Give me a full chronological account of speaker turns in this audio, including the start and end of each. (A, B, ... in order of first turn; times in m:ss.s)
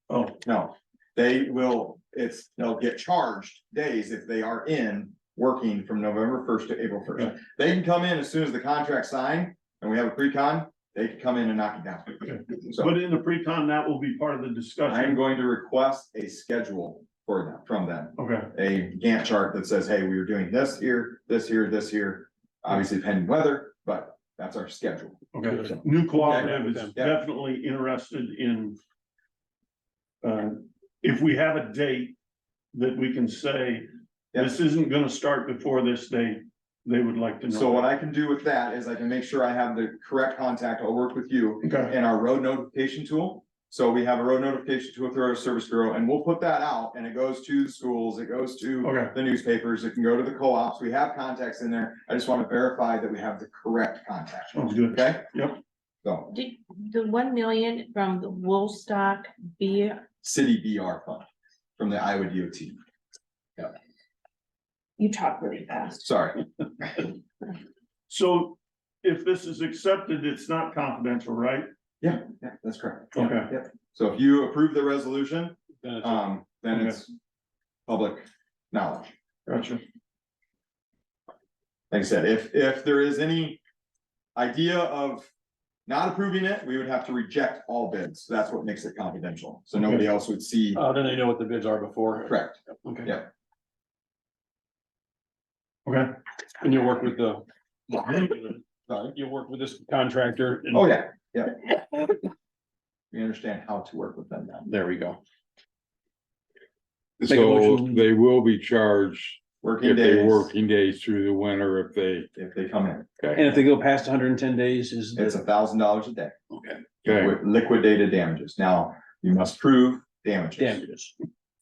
0:00.1-0:00.4 A
0:00.4-0:12.9 B
0:12.2-0:15.2 A
0:14.9-0:27.2 B
0:18.2-0:18.5 A
0:25.3-0:28.8 A
0:25.4-0:26.9 C
0:30.2-0:32.2 A
0:32.7-0:37.9 A
0:37.5-0:55.3 B
0:41.6-0:41.9 A
0:48.8-0:49.1 A
0:54.5-0:55.6 A
0:56.0-0:56.3 B
0:56.3-1:00.0 D
1:00.2-1:01.2 B
1:01.8-1:02.8 B
1:05.0-1:06.0 D
1:06.0-1:07.0 B
1:08.1-1:11.7 A
1:12.0-1:17.1 B
1:13.1-1:13.5 A
1:15.8-1:16.2 C
1:16.7-1:17.0 A
1:17.9-1:19.1 B
1:19.5-1:19.8 A
1:21.9-1:23.6 B
1:24.3-1:25.3 B
1:25.9-1:30.8 B
1:30.7-1:33.2 C
1:32.3-1:33.3 B
1:35.8-1:36.1 A
1:36.6-1:38.6 C
1:38.9-1:39.2 B
1:39.1-1:40.9 C
1:40.7-1:41.7 B
1:43.1-1:44.7 B
1:44.7-1:45.2 C
1:47.2-1:52.3 E
1:47.3-1:48.1 C
1:49.6-1:50.5 B
1:52.4-1:53.1 B
1:53.2-1:53.5 E
1:53.4-1:55.3 C
1:55.2-1:56.3 B
1:57.0-1:57.4 E
1:57.0-2:00.8 B
2:00.6-2:01.1 C